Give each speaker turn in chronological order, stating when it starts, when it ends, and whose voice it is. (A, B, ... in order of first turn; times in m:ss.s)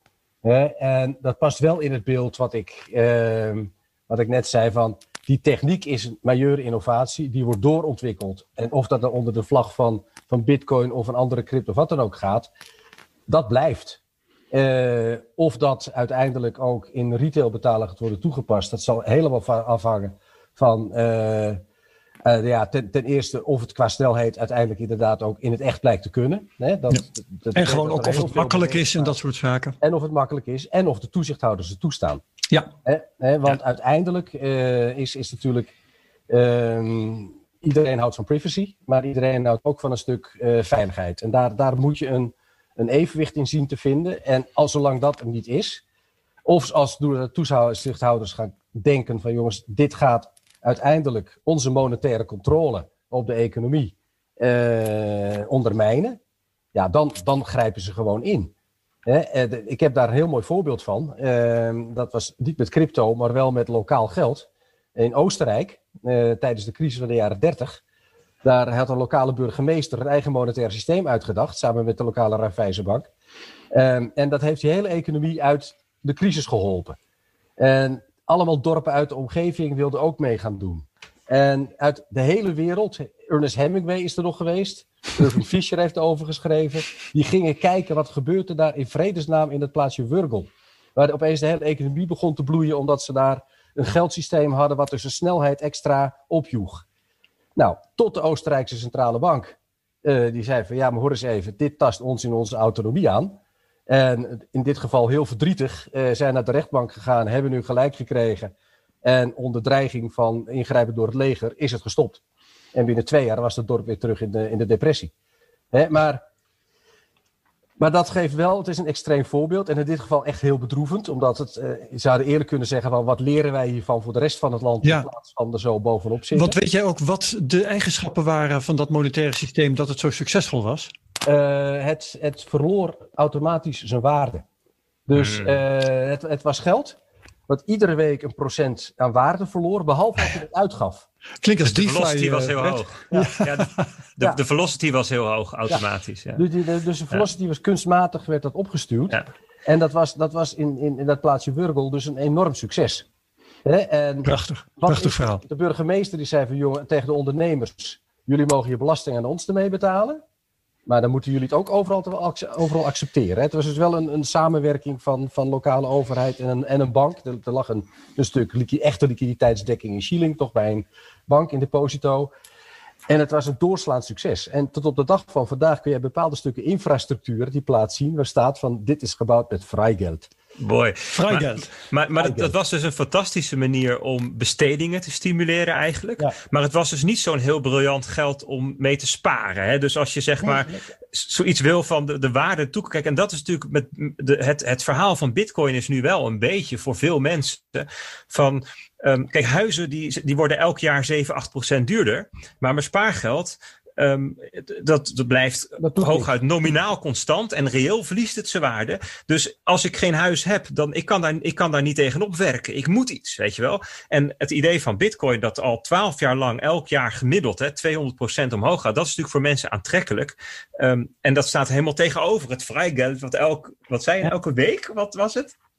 0:00.4-0:12.5 A
0:13.3-0:14.0 A
0:14.5-0:21.6 A
0:22.2-0:29.2 A
0:27.6-0:29.8 B
0:29.8-0:32.2 A
0:32.8-0:35.7 A
0:36.3-0:45.8 A
0:46.4-0:56.2 A
0:56.7-0:58.5 A
0:59.0-1:07.8 A
1:08.4-1:13.1 A
1:13.7-1:17.0 A
1:17.6-1:36.8 A
1:37.6-1:43.4 A
1:43.9-1:48.5 A
1:49.0-1:52.2 A
1:52.7-1:55.1 A
1:55.7-1:56.2 A
1:57.8-2:06.6 A
2:04.8-2:05.1 B
2:06.4-2:10.9 B
2:11.2-2:14.4 A
2:15.1-2:21.1 A
2:15.2-2:15.6 C
2:21.4-2:23.9 B
2:21.6-2:26.4 C
2:26.4-2:33.1 A
2:33.6-2:40.2 A
2:34.2-2:35.4 B
2:40.9-2:52.3 A
2:53.1-3:00.3 A
3:00.6-3:45.5 C
3:01.1-3:01.7 B
3:02.2-3:02.5 A
3:10.4-3:10.8 A
3:25.8-3:26.3 A